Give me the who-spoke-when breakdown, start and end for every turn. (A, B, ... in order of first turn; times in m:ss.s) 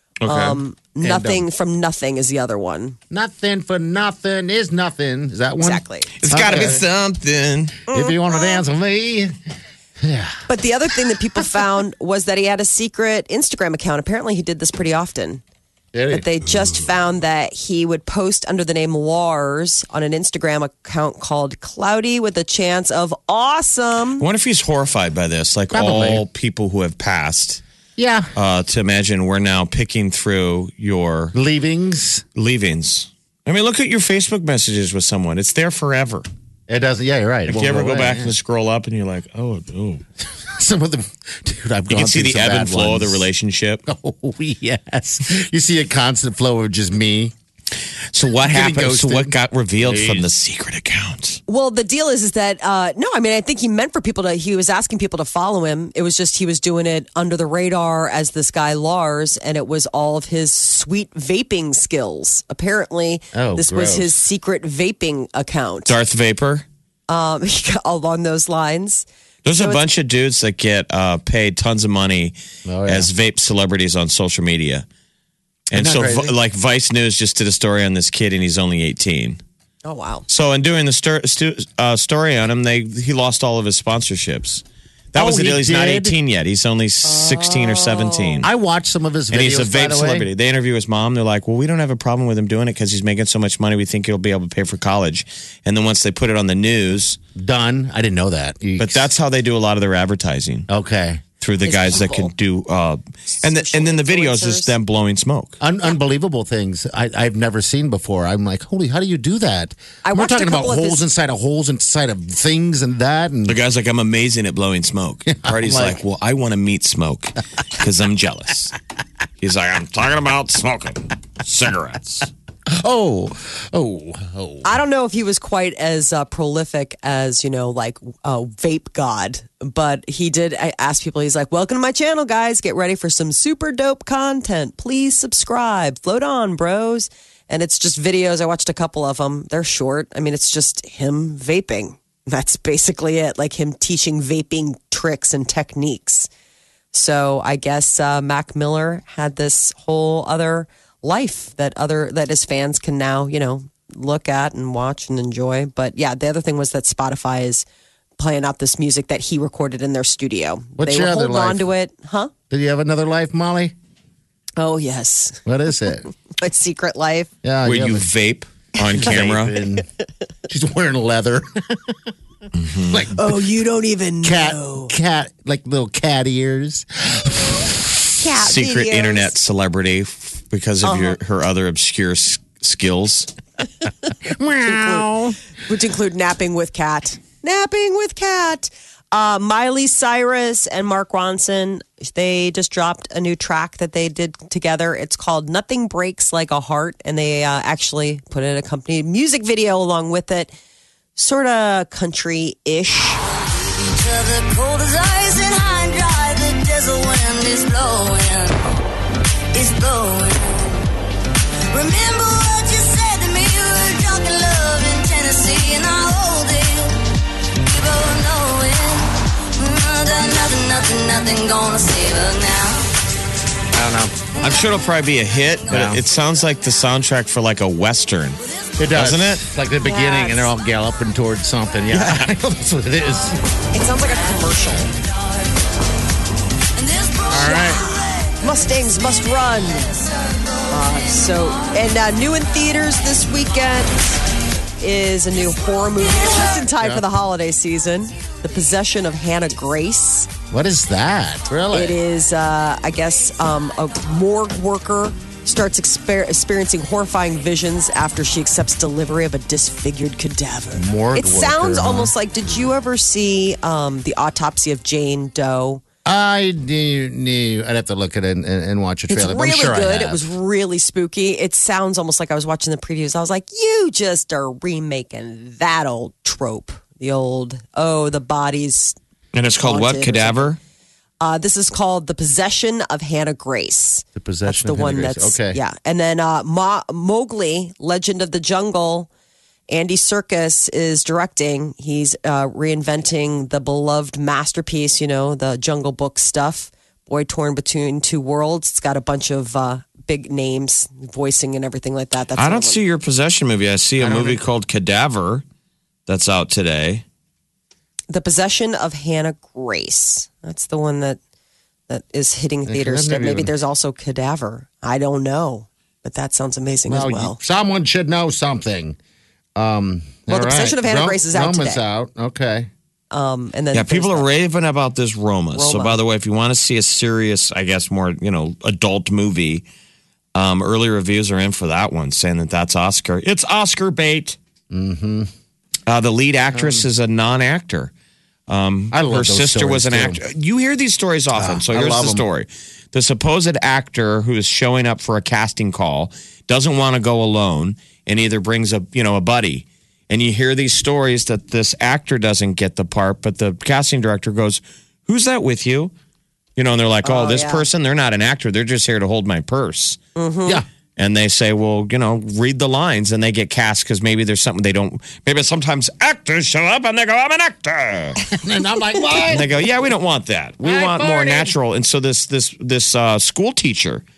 0:00.2-0:00.6 A
0:00.2-0:03.0 B
0:01.0-0:01.5 C
0:03.1-0:06.8 C
0:05.6-0:06.1 B
0:06.2-0:07.8 A
0:07.9-0:09.3 C
0:07.9-0:08.6 B
0:10.0-0:10.4 C
0:10.5-0:15.4 B
0:15.9-0:16.2 C
0:16.1-0:24.3 B
0:24.2-0:27.6 A
0:25.7-0:26.2 C
0:28.0-0:28.3 C
0:28.3-0:31.4 A
0:31.3-0:32.2 C
0:32.4-0:36.2 A
0:36.7-0:38.3 C
0:37.5-0:40.0 A
0:40.4-0:43.2 C
0:41.9-0:43.8 A
0:43.8-0:47.3 C
0:48.1-0:51.4 A
0:48.4-0:50.3 C
0:51.5-1:05.9 B
1:03.3-1:04.1 C
1:05.9-1:06.6 A
1:07.1-1:09.8 B
1:09.4-1:12.3 A
1:12.6-1:13.1 C
1:12.8-1:14.8 A
1:15.7-1:16.3 C
1:15.7-1:19.4 A
1:19.8-1:20.2 B
1:20.3-1:28.5 A
1:25.1-1:26.2 C
1:27.0-1:28.4 B
1:28.4-1:30.3 C
1:29.3-1:37.2 A
1:37.4-1:39.1 C
1:38.8-1:40.7 A
1:40.7-1:41.2 C
1:41.4-1:45.6 A
1:41.6-1:42.3 B
1:43.4-1:44.7 B
1:45.6-1:53.6 C
1:50.0-1:51.0 B
1:53.5-1:58.7 A
1:55.4-1:56.0 C
1:59.4-2:02.3 A
2:02.7-2:04.7 C
2:04.6-2:26.3 B
2:26.9-2:37.6 B
2:38.2-2:42.3 B
2:40.8-2:41.7 C
2:42.5-2:43.7 C
2:44.6-2:45.4 B
2:45.4-2:46.1 C
2:46.4-2:47.3 B
2:47.4-2:48.0 C
2:47.6-2:49.6 A
2:48.9-2:49.8 C
2:50.5-2:52.0 C
2:52.5-2:53.1 A
2:52.9-2:53.4 C
2:53.2-2:54.9 B
2:54.2-2:58.0 C
2:58.2-2:59.3 B
2:58.4-3:03.3 A
3:00.8-3:01.2 B
3:04.2-3:05.4 C
3:04.6-3:05.0 B
3:05.7-3:20.5 B
3:21.2-3:23.2 B
3:23.8-3:28.6 D
3:29.5-3:30.8 D
3:31.7-3:37.0 D
3:37.6-3:42.9 D
3:43.7-3:44.2 C
3:44.4-3:48.4 A
3:44.4-3:44.7 D
3:45.7-3:46.0 C
3:48.8-3:53.4 C
3:48.9-3:49.4 A
3:49.8-3:50.5 B
3:51.9-3:52.3 A
3:53.7-3:54.9 B
3:54.3-3:55.5 D
3:56.8-3:58.6 D
3:57.3-3:57.8 C
3:58.4-4:00.0 B
4:00.7-4:04.2 B
4:04.8-4:10.3 B
4:06.8-4:07.0 C
4:10.5-4:12.0 C
4:11.7-4:25.8 B
4:20.7-4:22.1 C
4:26.0-4:30.2 C
4:29.1-4:39.0 B
4:39.3-4:40.6 A
4:39.6-4:40.5 B
4:41.2-4:49.1 B
4:44.2-4:45.6 C
4:49.7-5:02.8 B
5:02.4-5:05.4 A
5:04.0-5:04.4 C
5:06.1-5:07.0 A
5:08.1-5:11.2 B
5:11.9-5:17.4 B
5:12.6-5:13.5 C
5:16.9-5:19.0 C
5:19.6-5:22.7 C
5:20.3-5:21.8 B
5:23.1-5:24.3 B
5:23.7-5:29.6 A
5:25.5-5:26.0 B
5:30.3-5:34.4 A
5:34.7-5:35.3 C
5:35.9-5:37.9 A
5:36.5-5:36.8 C
5:38.5-5:55.9 A
5:38.9-5:40.2 C
5:41.3-5:42.2 C
5:56.6-6:00.0 A
5:57.0-5:57.6 B
6:00.2-6:00.6 B
6:01.0-6:08.2 A
6:08.3-6:09.5 C
6:09.3-6:14.0 A
6:10.6-6:11.5 C